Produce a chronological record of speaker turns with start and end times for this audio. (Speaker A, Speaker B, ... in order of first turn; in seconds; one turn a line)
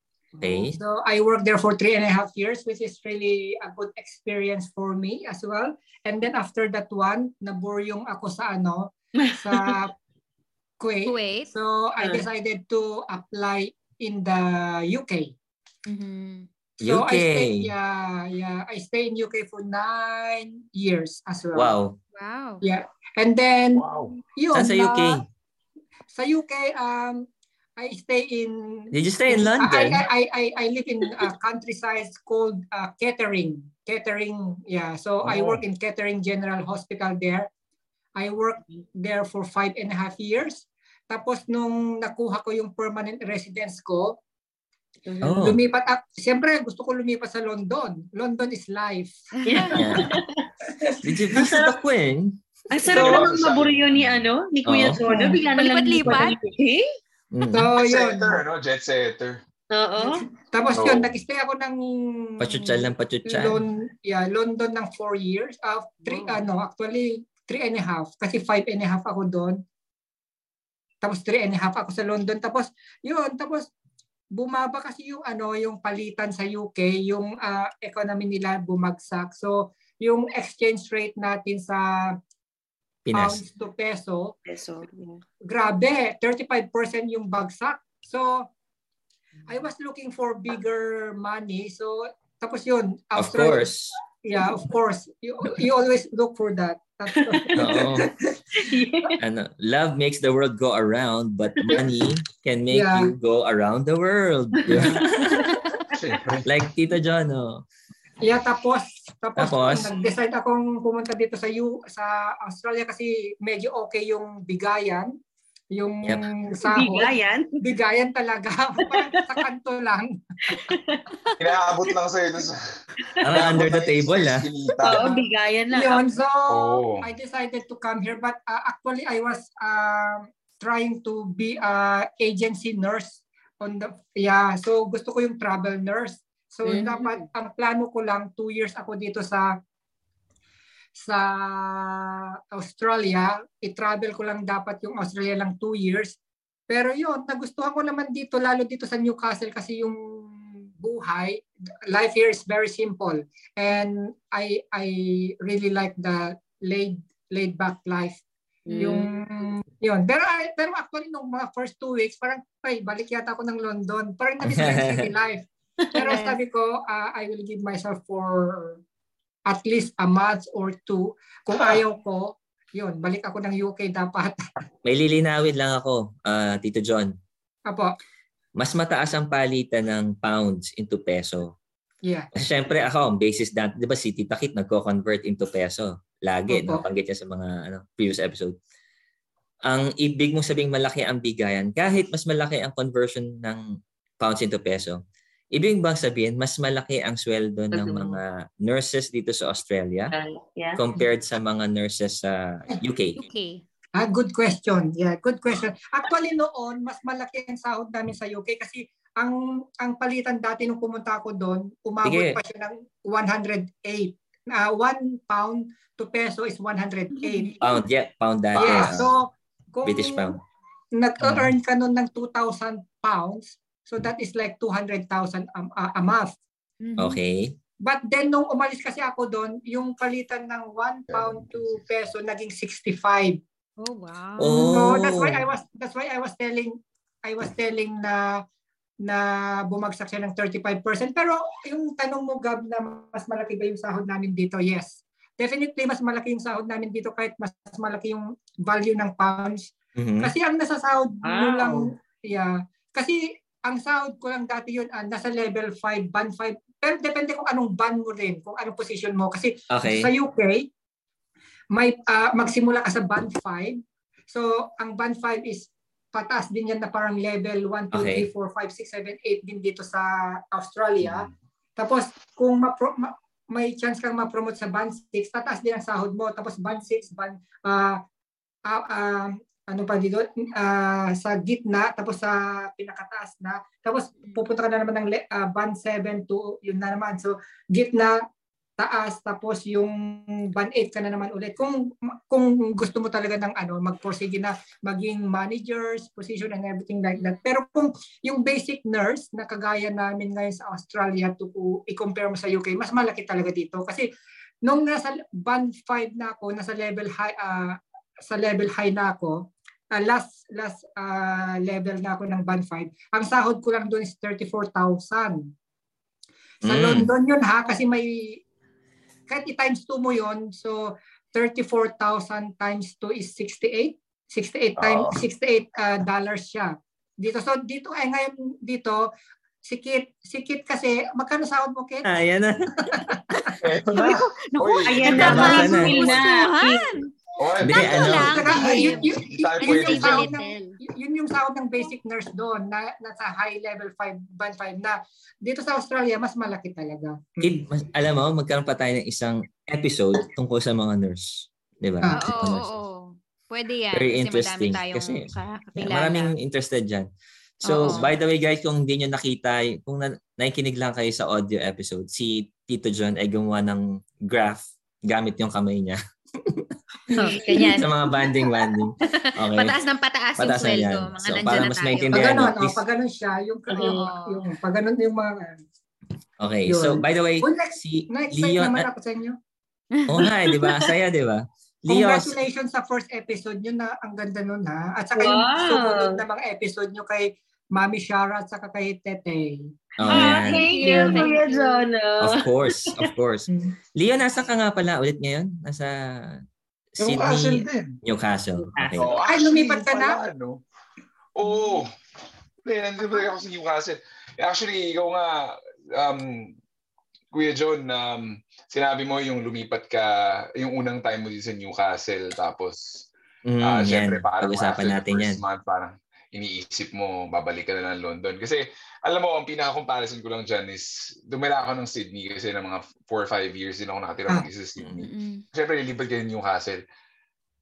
Speaker A: 0.3-9.9
Speaker B: 0.4-0.8
Speaker C: 9.2-9.8
Speaker A: 10.8-15.3
Speaker D: 11.1-11.5
Speaker C: 12.0-12.2
Speaker D: 15.8-16.5
Speaker B: 16.8-17.7
Speaker A: 16.8-21.7
Speaker B: 21.5-22.0
Speaker D: 22.1-22.6
Speaker A: 22.6-25.2
Speaker E: 23.7-24.2
Speaker B: 24.5-25.2
Speaker A: 26.1-37.5
Speaker B: 28.9-30.0
Speaker E: 35.2-35.6
Speaker A: 38.1-44.2
Speaker C: 45.1-45.4
Speaker B: 45.2-45.6
Speaker A: 45.4-49.2
Speaker D: 49.4-49.8
Speaker C: 49.5-50.4
Speaker B: 49.7-50.1
Speaker B: 51.0-52.4
Speaker C: 51.3-51.8
Speaker C: 52.7-56.9
Speaker A: 52.7-53.3
Speaker E: 52.9-54.2
Speaker B: 54.6-55.0
Speaker A: 55.1-55.4
Speaker D: 55.5-56.4
Speaker B: 57.3-57.7
Speaker A: 57.5-58.4
Speaker E: 57.7-59.4
Speaker C: 59.7-60.2
Speaker A: 60.0-69.6
Speaker E: 60.7-61.1
Speaker B: 62.4-63.6
Speaker C: 66.1-66.3
Speaker A: 71.0-73.7
Speaker A: 74.3-82.2
Speaker B: 83.0-83.4
Speaker A: 83.1-84.3
Speaker C: 84.5-85.2
Speaker A: 85.5-88.5
Speaker A: 89.5-93.7
Speaker B: 93.2-94.0
Speaker A: 94.2-98.7
Speaker C: 97.1-97.8
Speaker B: 97.5-98.1
Speaker C: 98.5-99.2
Speaker B: 99.2-105.5
Speaker A: 102.7-103.1
Speaker C: 104.6-105.0
Speaker E: 105.9-106.5
Speaker B: 106.5-107.6
Speaker A: 108.2-115.1
Speaker B: 109.4-109.9
Speaker A: 115.7-120.8
Speaker C: 116.6-117.6
Speaker C: 118.8-119.1
Speaker C: 120.5-121.0
Speaker E: 121.4-122.6
Speaker B: 123.2-124.4
Speaker E: 123.3-125.2
Speaker C: 124.8-126.0
Speaker A: 124.9-125.2
Speaker A: 125.7-139.5
Speaker E: 126.5-127.1
Speaker D: 136.7-136.9
Speaker C: 136.7-137.2
Speaker A: 141.0-146.2
Speaker A: 146.7-158.2
Speaker C: 158.7-159.1
Speaker A: 158.7-168.8
Speaker B: 164.4-165.1
Speaker C: 165.8-166.3
Speaker A: 169.5-174.4
Speaker B: 174.8-177.1
Speaker A: 177.7-177.9
Speaker B: 178.6-181.5
Speaker A: 182.0-182.3
Speaker B: 182.3-188.6
Speaker A: 186.5-186.8
Speaker B: 189.7-193.6
Speaker B: 194.2-195.0
Speaker B: 195.5-200.1
Speaker C: 197.7-198.2
Speaker C: 200.1-200.8
Speaker B: 200.8-203.2
Speaker D: 203.2-203.6
Speaker A: 203.9-217.7
Speaker B: 212.0-212.4
Speaker D: 217.2-217.5
Speaker B: 217.6-219.1
Speaker E: 218.5-219.1
Speaker A: 218.6-220.4
Speaker B: 219.8-220.4
Speaker A: 220.9-226.4
Speaker B: 221.2-221.5
Speaker D: 226.8-227.2
Speaker B: 227.0-227.5
Speaker A: 227.8-233.4
Speaker E: 231.1-231.6
Speaker D: 233.8-234.9
Speaker B: 234.4-235.4
Speaker A: 234.5-238.4
Speaker A: 239.0-260.7
Speaker B: 249.9-250.3
Speaker C: 251.2-251.9
Speaker B: 259.7-260.1
Speaker A: 261.7-278.0
Speaker B: 267.9-268.3
Speaker E: 271.0-271.3
Speaker A: 278.6-288.2
Speaker A: 288.8-304.1
Speaker A: 304.6-315.5
Speaker B: 316.6-317.1
Speaker A: 316.6-318.4
Speaker A: 319.3-329.1
Speaker E: 324.8-325.2
Speaker A: 329.6-332.1
Speaker B: 332.0-332.7
Speaker A: 332.8-333.6
Speaker E: 333.6-336.2
Speaker D: 333.9-337.1
Speaker C: 334.8-337.0
Speaker B: 335.1-336.0
Speaker A: 335.3-335.7
Speaker E: 337.4-340.3
Speaker B: 337.6-338.7
Speaker D: 337.6-340.8
Speaker A: 338.1-347.7
Speaker B: 347.4-352.7
Speaker D: 352.1-356.3
Speaker B: 353.9-357.1
Speaker B: 357.6-366.0
Speaker D: 357.6-358.1
Speaker D: 367.1-367.9
Speaker B: 367.5-369.8
Speaker D: 369.0-372.4
Speaker B: 370.4-372.8
Speaker A: 372.1-375.6
Speaker C: 373.7-374.0
Speaker D: 373.7-374.4
Speaker B: 376.4-378.9
Speaker A: 376.7-379.4
Speaker D: 379.9-380.3
Speaker B: 380.1-382.4
Speaker C: 380.2-380.9
Speaker A: 381.9-389.7
Speaker C: 385.1-386.2
Speaker B: 390.0-390.7
Speaker C: 390.1-393.1
Speaker D: 390.1-391.9
Speaker A: 390.9-391.2
Speaker B: 392.2-396.4
Speaker A: 393.5-393.7
Speaker E: 397.0-398.0
Speaker B: 397.0-399.1
Speaker C: 398.6-399.0
Speaker E: 399.0-400.6
Speaker A: 399.2-400.2
Speaker E: 401.3-401.9
Speaker D: 401.4-401.8
Speaker E: 402.6-406.5
Speaker E: 407.3-426.8
Speaker B: 413.4-415.4
Speaker D: 425.0-425.4